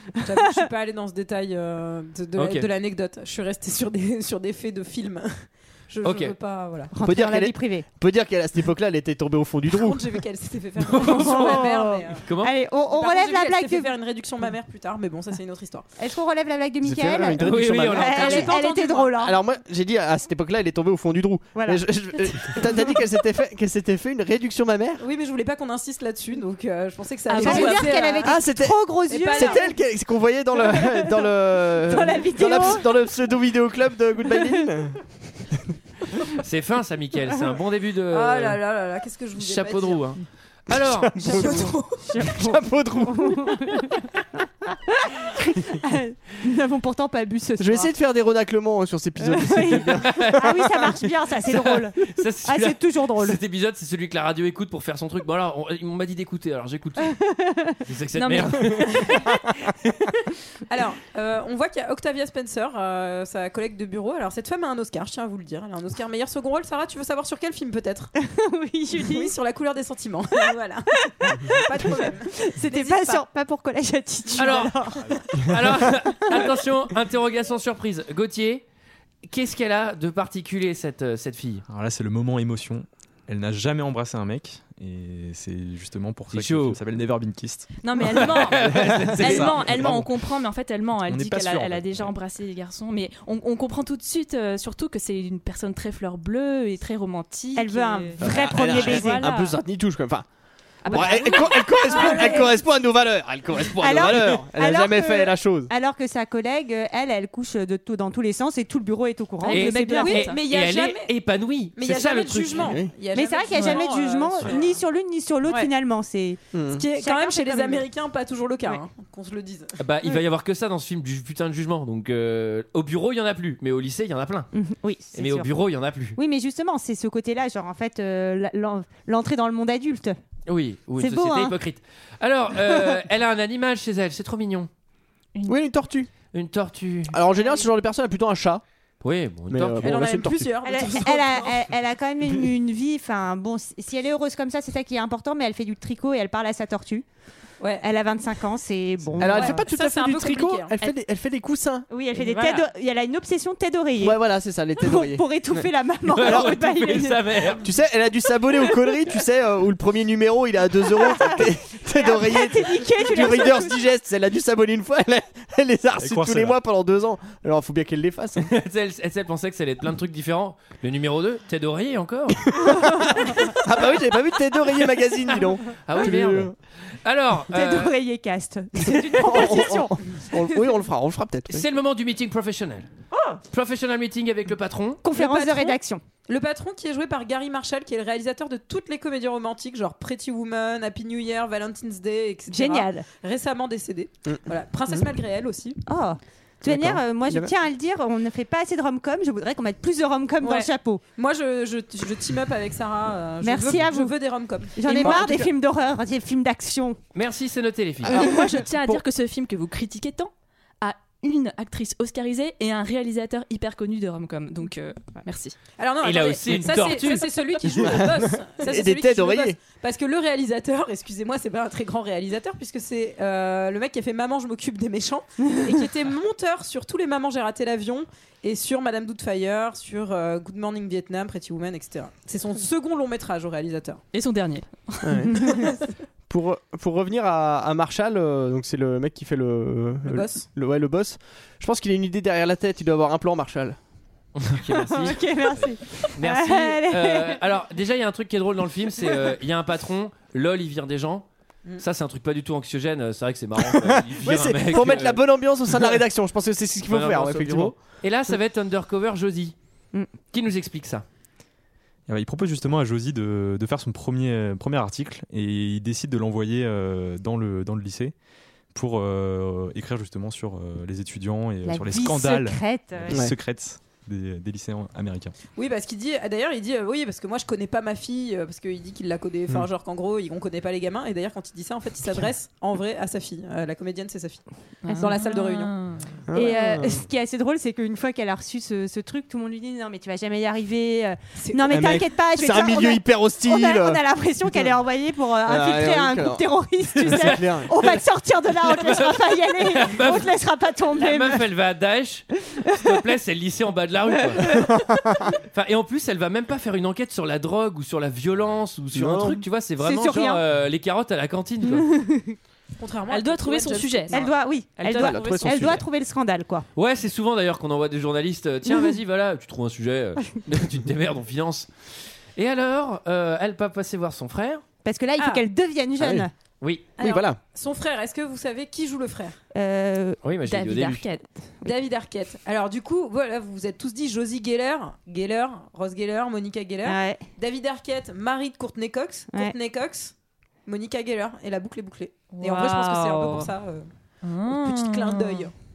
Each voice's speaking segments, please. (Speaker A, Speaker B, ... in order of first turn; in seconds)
Speaker A: 0.2-6.9, 9.7-12.2, 12.9-15.8, 17.9-19.1, 25.0-28.4, 29.1-29.6, 38.1-40.1, 41.3-42.0, 60.7-68.1, 69.0-73.2, 101.9-102.5, 110.0-111.1, 111.8-114.8, 115.4-115.7, 116.7-119.8, 139.8-141.6, 147.6-147.9, 149.2-150.8, 152.2-152.6, 185.1-195.8, 200.4-205.2, 215.8-234.0, 240.1-240.4, 275.5-285.7, 291.4-291.9, 312.8-314.3, 325.2-325.5, 327.0-329.4, 331.6-340.1, 340.6-343.9, 344.5-345.5
Speaker B: 2.4-2.7, 6.0-6.3, 10.8-11.6, 12.2-12.5, 17.4-18.5, 36.4-38.6, 39.4-41.4, 50.0-50.9, 51.4-57.1, 57.8-60.1, 74.3-78.6, 79.2-81.6, 86.3-86.8, 88.2-89.6, 109.5-112.7, 119.8-124.5, 125.1-126.2, 130.4-134.7, 136.3-137.2, 139.0-139.9, 156.1-157.6, 168.4-172.6, 175.8-177.9, 181.5-182.9, 183.5-185.0, 207.1-208.2, 216.0-217.3, 244.3-251.2, 251.8-255.9, 256.9-259.5, 260.3-261.0, 297.0-298.0, 298.6-300.3, 300.9-304.5, 305.5-311.9, 316.7-321.7, 322.4-324.6, 326.6-326.9, 330.2-331.0
Speaker C: 6.9-7.8, 11.0-13.9, 16.0-19.4, 21.6-23.0, 27.3-29.6, 30.7-31.2, 31.8-32.9, 41.3-44.1, 44.7-47.9, 49.2-53.4, 57.0-57.8, 68.2-69.3, 71.1-76.5, 97.5-99.3, 100.9-102.4, 103.8-110.2, 113.1-116.4, 116.9-117.8, 124.5-125.5, 126.2-130.2, 131.0-131.6, 140.6-147.0, 147.8-149.6, 151.9-154.2, 154.8-157.5, 160.9-163.8, 172.7-173.3, 177.5-180.7, 185.0-186.0, 192.5-193.1, 195.9-201.0, 203.4-204.2, 204.7-207.0, 244.8-247.4, 271.6-273.2, 286.3-301.4, 302.5-302.9, 304.4-304.7, 309.8-310.4, 311.7-312.4, 314.1-316.6, 324.8-326.3, 329.5-330.2, 336.8-337.2
Speaker D: 7.0-10.1, 16.8-18.5, 19.2-25.0, 27.4-35.0, 40.8-43.8, 47.6-50.3, 88.8-89.1, 98.2-100.2, 100.8-105.7, 112.6-112.9, 116.5-116.8, 135.5-136.1, 137.1-138.6, 139.5-140.5, 149.2-151.9, 154.0-155.7, 156.2-156.5, 157.6-168.5, 172.5-176.5, 178.9-181.7, 194.3-195.0, 196.6-197.5, 204.9-205.5, 217.7-219.6, 235.0-235.6, 236.3-243.8, 253.6-257.7, 286.3-287.0, 291.7-294.7, 295.4-296.4, 297.0-297.7, 304.6-305.2, 308.9-309.4, 314.9-315.8, 326.0-326.3, 327.0-327.4
Speaker E: 58.2-59.0, 87.8-99.5, 100.8-102.4, 109.4-110.4, 208.1-215.6, 234.1-235.4, 284.8-286.0, 313.1-315.8, 330.5-331.2, 342.3-343.5, 344.2-345.5
Speaker F: 81.7-90.1, 91.0-92.1, 166.0-166.6, 262.1-268.1, 268.7-275.3